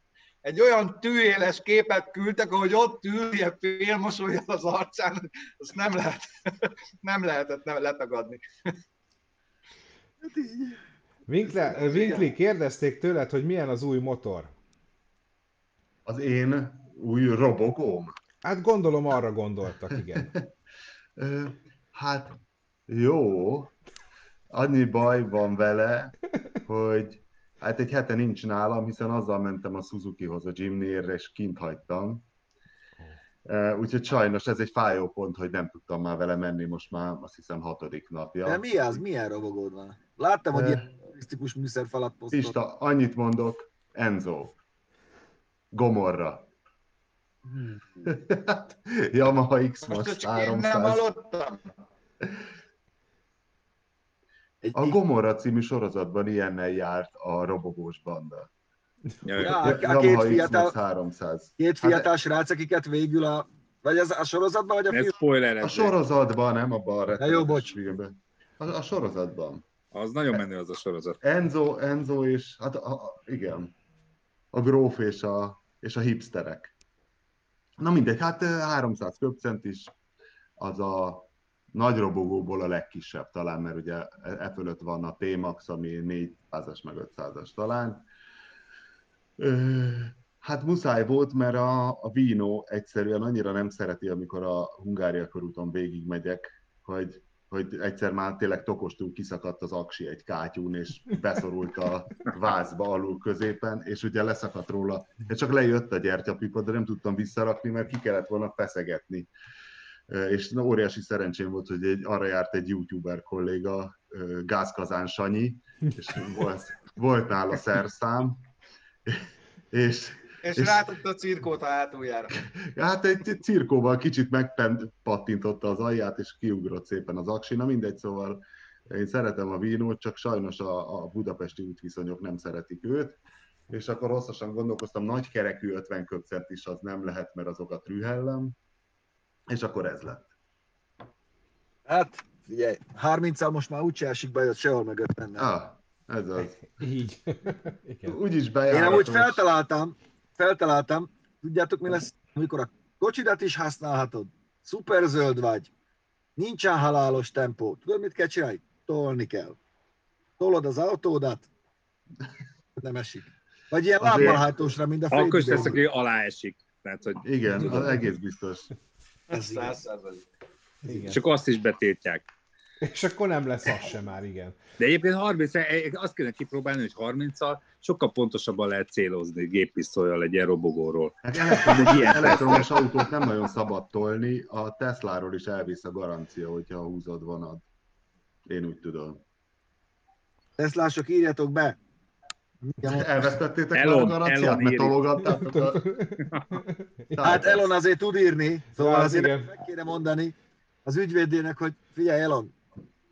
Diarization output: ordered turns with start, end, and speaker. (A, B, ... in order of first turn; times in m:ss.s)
0:00.4-0:08.7 A
0:10.2-0:10.8 B
0:11.3-0:14.5 C
0:11.8-0:12.2 A
0:16.0-0:18.1 D
0:18.4-0:20.3 C
0:20.1-0:20.4 D
0:21.2-0:23.7 D
0:24.5-0:26.1 D
0:26.7-0:32.2 D
0:33.4-0:39.0 D
0:38.4-0:42.6 B
0:40.5-0:40.9 D
0:42.3-0:44.6 D
0:45.7-0:46.5 D
0:47.4-0:48.1 B
0:48.0-0:51.0 D
0:49.9-0:51.7 A
0:54.6-0:55.0 B
0:54.7-0:58.5 D
0:59.2-0:59.8 E
0:59.4-1:00.7 B
0:59.5-1:02.1 D
1:01.6-1:05.2 B
1:04.9-1:05.9 E
1:05.6-1:09.6 D
1:07.2-1:07.7 B
1:09.9-1:11.2 E
1:11.2-1:13.7 D
1:14.5-1:16.7 D
1:17.8-1:19.9 D
1:20.6-1:28.0 D
1:29.4-1:49.3 D
1:50.1-1:58.5 D
1:59.0-2:00.9 D
2:00.4-2:02.4 A
2:02.4-2:18.5 D
2:19.5-2:20.3 D
2:21.9-2:25.5 B
2:25.4-2:26.6 D
2:26.6-2:28.2 C
2:28.0-2:29.4 D
2:28.7-2:35.7 B
2:36.4-2:39.6 B
2:40.4-2:41.5 B
2:42.8-2:45.8 B
2:44.0-2:44.6 D
2:45.1-2:48.0 E
2:47.2-2:48.7 D
2:49.3-2:49.8 B
2:49.3-2:50.2 A
2:50.8-2:51.2 C
2:50.9-2:51.1 B
2:51.1-2:52.2 E
2:52.8-2:54.6 C
2:54.8-3:02.8 E
3:01.2-3:07.6 D
3:08.4-3:09.2 D
3:10.6-3:11.8 B
3:12.6-3:13.1 B
3:12.8-3:15.8 D
3:13.7-3:15.0 E
3:15.2-3:17.4 C
3:16.2-3:16.5 E
3:17.1-3:17.7 D
3:17.2-3:22.5 B
3:18.8-3:19.5 C